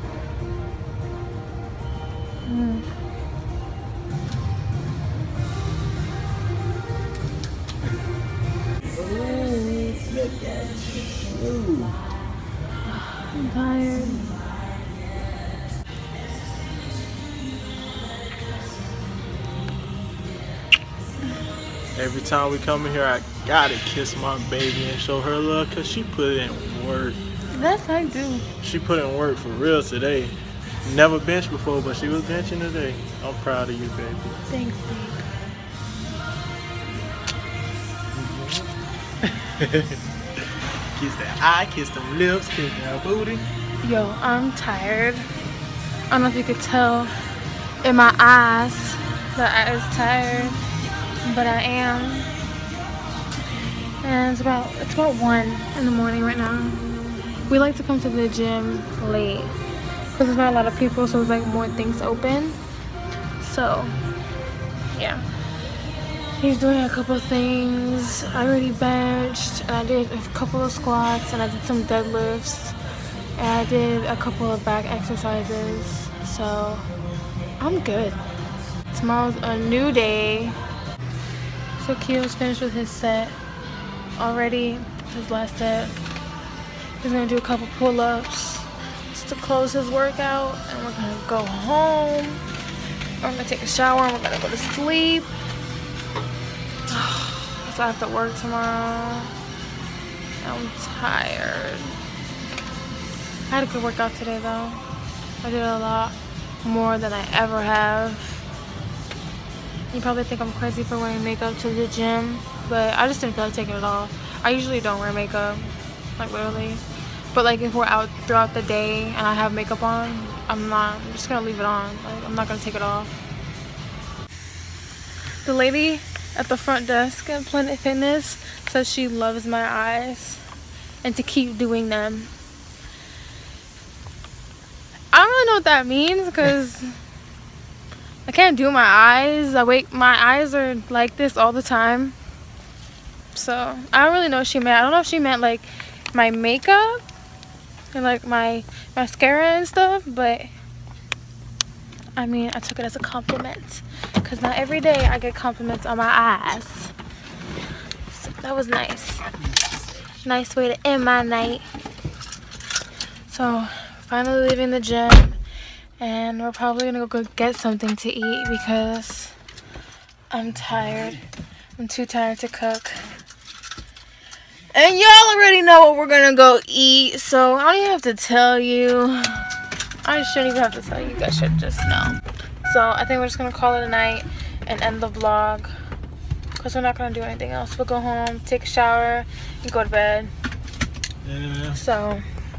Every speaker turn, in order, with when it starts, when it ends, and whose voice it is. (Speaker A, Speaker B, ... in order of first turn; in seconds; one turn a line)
Speaker A: 2.5-2.9
Speaker B: 9.0-11.9
Speaker A: 12.8-14.4
Speaker B: 22.0-27.2
Speaker A: 27.5-28.5
Speaker B: 28.6-34.4
Speaker A: 34.5-35.3
Speaker B: 38.1-38.7
Speaker B: 39.2-40.0
Speaker B: 41.0-43.5
Speaker A: 43.8-45.3
Speaker A: 46.1-47.1
Speaker A: 47.8-50.6
Speaker A: 51.2-52.3
Speaker A: 54.0-56.8
Speaker A: 57.5-59.6
Speaker A: 60.1-62.6
Speaker A: 63.4-63.9
Speaker A: 64.9-65.2
Speaker A: 66.4-72.8
Speaker A: 73.4-76.9
Speaker A: 77.6-78.2
Speaker A: 78.9-80.6
Speaker A: 81.8-83.4
Speaker A: 84.2-86.0
Speaker A: 87.0-92.4
Speaker A: 93.2-95.3
Speaker A: 96.9-99.3
Speaker A: 100.4-102.0
Speaker A: 103.5-104.8
Speaker A: 105.4-108.5
Speaker A: 109.9-123.1
Speaker A: 125.4-130.4
Speaker A: 131.0-132.3
Speaker A: 135.1-137.0
Speaker A: 138.3-142.2
Speaker A: 143.3-147.0
Speaker A: 147.9-150.5
Speaker A: 152.2-156.9
Speaker A: 158.1-159.3
Speaker A: 160.2-161.7
Speaker A: 163.3-165.4
Speaker A: 166.0-169.3
Speaker A: 170.3-171.2
Speaker A: 171.8-173.1
Speaker A: 174.7-179.5
Speaker A: 180.0-185.7
Speaker A: 186.6-190.3
Speaker B: 191.2-191.8
Speaker A: 191.7-192.2